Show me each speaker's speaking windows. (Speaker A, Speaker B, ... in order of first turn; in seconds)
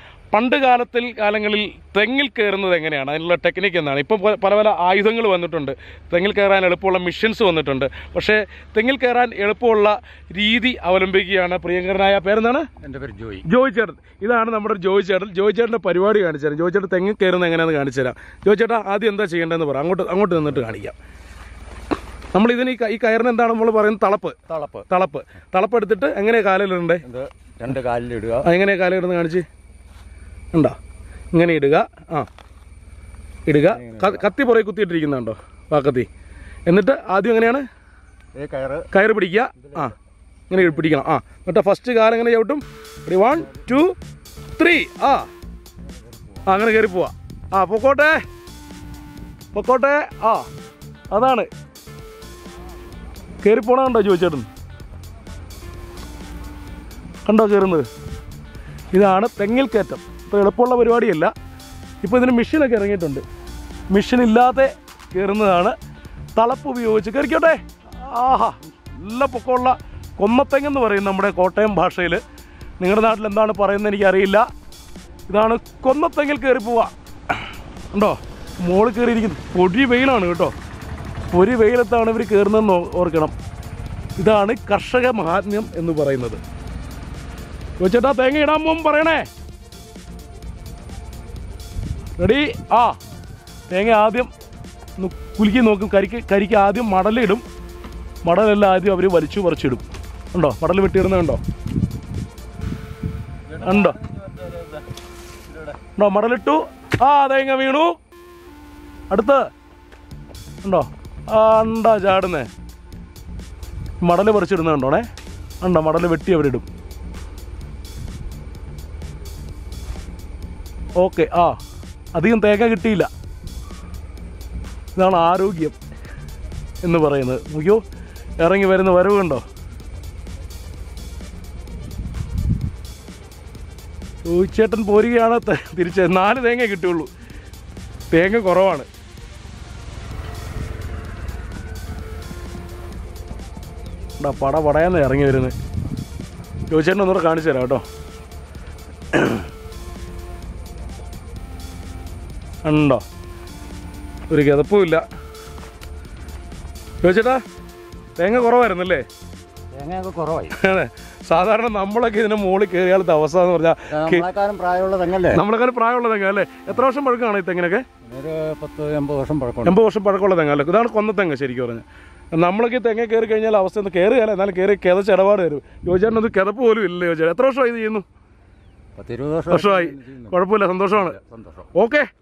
Speaker A: 0.3-12.7, 13.4-21.0, 22.3-24.4, 24.9-27.0, 28.4-29.5, 31.3-32.3, 33.5-36.1, 36.7-37.7, 38.9-40.0, 40.5-43.9, 44.6-45.3, 46.5-48.2, 49.5-50.5, 51.1-51.5, 53.4-54.5, 57.3-57.9, 58.9-61.3, 62.0-63.2, 63.9-65.8, 66.4-72.2, 72.8-74.5, 75.3-76.9, 77.9-80.5, 81.3-83.3, 84.2-86.4, 87.8-89.3, 92.2-93.0, 93.7-94.3, 95.0-97.4, 98.2-99.8, 100.3-101.4, 103.6-104.0, 106.0-107.9, 109.1-109.5, 110.6-112.5, 114.0-115.1, 115.6-116.7, 121.0-121.5, 122.1-123.1, 125.0-125.8, 126.8-127.8, 128.4-129.4, 134.2-137.1, 138.1-138.9, 144.2-145.5, 146.7-147.8, 149.1-149.4, 152.6-153.0, 154.3-155.0, 157.0-157.4, 158.2-159.1, 160.5-164.3, 165.3-167.8, 169.6-178.1, 179.5-181.2, 181.7-182.1
Speaker B: 12.8-13.5, 24.5-24.9, 27.0-28.5, 33.7-34.3, 38.4-38.9, 39.6-39.9, 45.9-46.5, 103.5-104.8, 159.8-160.6, 163.9-165.4, 168.1-169.8, 179.0-180.4, 181.0-181.7